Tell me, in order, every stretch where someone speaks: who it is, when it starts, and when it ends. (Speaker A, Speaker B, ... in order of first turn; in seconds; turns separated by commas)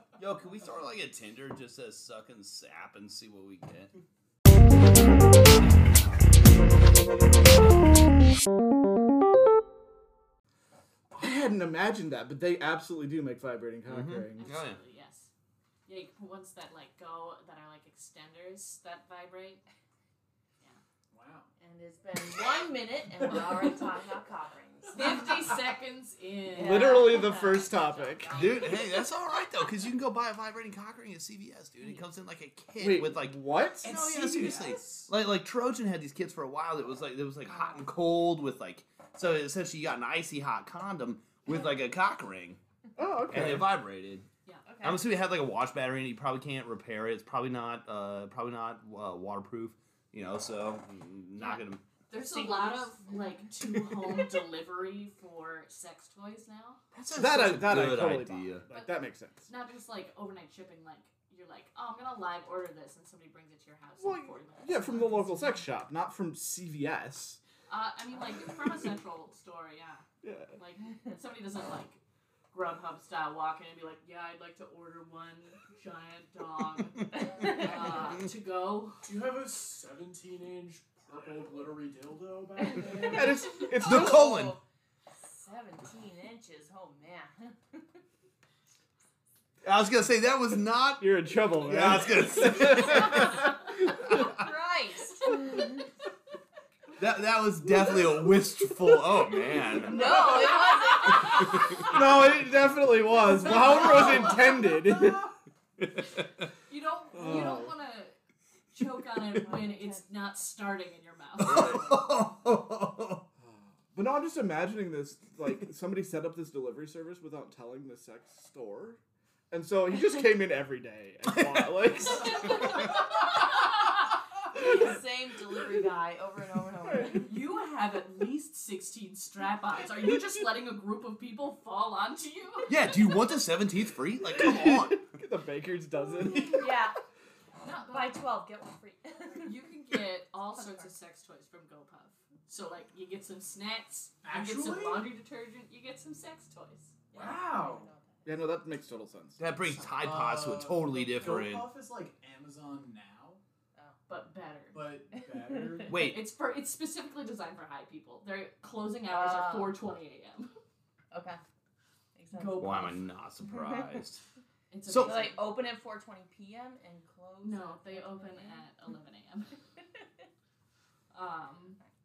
Speaker A: 0.2-3.9, Speaker B: 11.1-14.5, Speaker A: 13.9-14.8, Speaker C: 14.4-15.3, Speaker C: 15.9-19.6, Speaker D: 21.1-21.5, Speaker E: 21.6-25.6, Speaker C: 24.9-27.3, Speaker E: 26.5-29.1, Speaker B: 26.6-28.6, Speaker A: 28.4-42.6, Speaker B: 32.8-33.9, Speaker D: 33.8-35.1, Speaker E: 37.5-37.8, Speaker B: 43.0-43.7, Speaker A: 43.3-44.3, Speaker E: 44.7-45.0, Speaker A: 44.8-51.8, Speaker C: 52.1-56.8, Speaker E: 52.1-53.1, Speaker A: 56.9-58.7, Speaker B: 57.1-59.5, Speaker C: 59.5-65.6, Speaker B: 64.0-67.4, Speaker C: 67.7-72.0, Speaker B: 70.2-70.6, Speaker C: 72.5-79.0, Speaker D: 77.5-78.2, Speaker D: 79.0-83.5, Speaker E: 82.8-87.8, Speaker B: 83.0-84.2, Speaker A: 83.7-84.6, Speaker A: 89.6-94.4, Speaker B: 91.0-94.2, Speaker E: 93.9-95.8, Speaker A: 97.0-100.3, Speaker E: 99.8-101.9, Speaker D: 100.2-100.5, Speaker C: 101.0-101.6, Speaker A: 101.2-102.0, Speaker B: 101.8-105.3, Speaker C: 103.5-104.4, Speaker E: 103.5-104.5, Speaker C: 106.7-108.1, Speaker B: 107.1-107.7, Speaker C: 108.7-111.8, Speaker E: 109.4-110.1, Speaker A: 111.4-113.2, Speaker B: 113.4-119.0, Speaker B: 119.5-122.8, Speaker A: 121.3-121.8, Speaker C: 122.1-123.7, Speaker E: 124.5-127.3, Speaker B: 126.8-127.3, Speaker C: 127.2-133.3, Speaker A: 132.7-135.1, Speaker B: 134.3-136.9, Speaker E: 136.5-137.0, Speaker C: 137.6-138.2, Speaker E: 137.9-139.5, Speaker C: 139.4-147.0, Speaker E: 140.6-140.9, Speaker D: 144.2-145.1, Speaker E: 147.1-148.5, Speaker D: 147.1-147.9, Speaker B: 148.2-149.4, Speaker A: 149.4-151.7, Speaker D: 150.0-153.4, Speaker C: 154.1-154.8, Speaker D: 154.7-156.0, Speaker A: 155.9-156.2, Speaker C: 155.9-160.5, Speaker E: 159.1-159.8, Speaker E: 161.1-161.4, Speaker E: 162.2-162.7, Speaker C: 162.3-163.0, Speaker A: 162.6-164.2, Speaker E: 163.5-163.8, Speaker C: 164.7-165.5, Speaker A: 164.9-165.2, Speaker E: 165.0-168.7, Speaker C: 167.4-169.6, Speaker C: 171.1-171.8